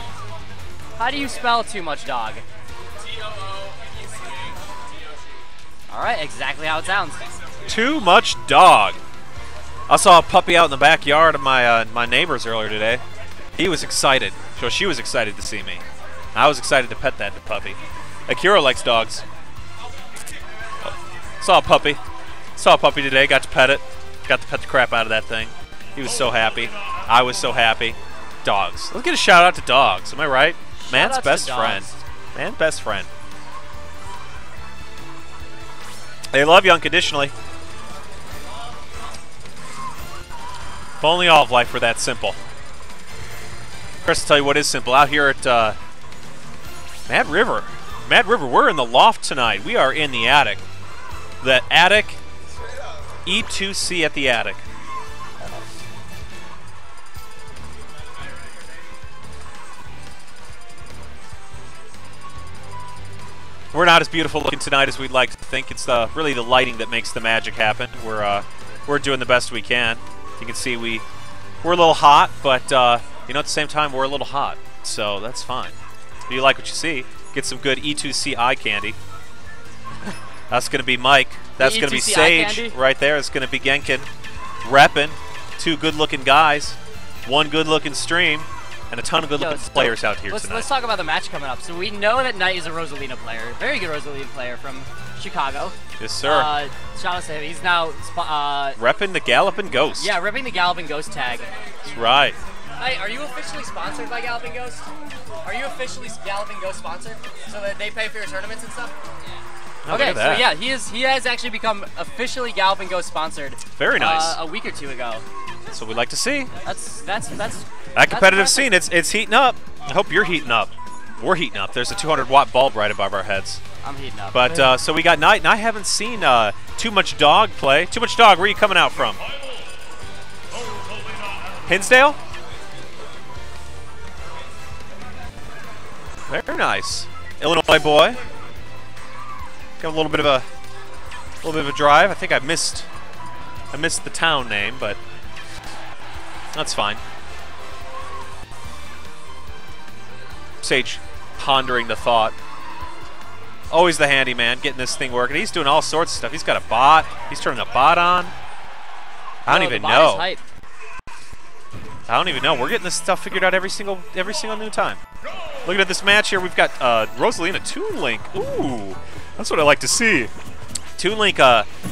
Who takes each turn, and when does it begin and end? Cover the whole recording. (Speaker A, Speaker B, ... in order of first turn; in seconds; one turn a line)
Speaker A: 1.0-2.4
Speaker A: 5.9-7.2
Speaker B: 7.7-9.0
Speaker B: 9.9-13.0
Speaker B: 13.6-15.8
Speaker B: 16.3-19.2
Speaker B: 20.9-22.0
Speaker B: 22.6-33.1
Speaker A: 30.8-32.0
Speaker B: 36.3-37.3
Speaker B: 41.0-42.4
Speaker B: 44.0-45.8
Speaker B: 47.1-50.6
Speaker B: 51.4-52.2
Speaker B: 53.2-54.6
Speaker B: 63.7-71.0
Speaker B: 71.6-75.7
Speaker B: 76.3-79.0
Speaker B: 80.5-84.1
Speaker A: 81.6-82.8
Speaker B: 84.6-90.7
Speaker A: 89.3-98.8
Speaker B: 96.0-96.5
Speaker B: 98.8-100.1
Speaker A: 100.0-101.5
Speaker B: 101.8-102.4
Speaker A: 102.8-104.9
Speaker A: 105.4-108.9
Speaker B: 109.8-110.5
Speaker A: 109.9-115.2
Speaker B: 113.7-114.4
Speaker B: 115.7-116.5
Speaker A: 116.6-118.8
Speaker B: 117.9-123.6
Speaker A: 123.8-124.8
Speaker B: 124.3-129.2
Speaker B: 131.7-132.2
Speaker B: 136.3-138.2
Speaker B: 139.8-140.4
Speaker B: 141.4-142.9
Speaker B: 143.7-145.0
Speaker B: 146.5-147.0
Speaker B: 150.6-152.3
Speaker B: 153.7-158.3
Speaker B: 159.4-160.3
Speaker A: 159.5-160.4
Speaker B: 162.1-165.0
Speaker B: 165.6-170.3
Speaker B: 171.0-171.7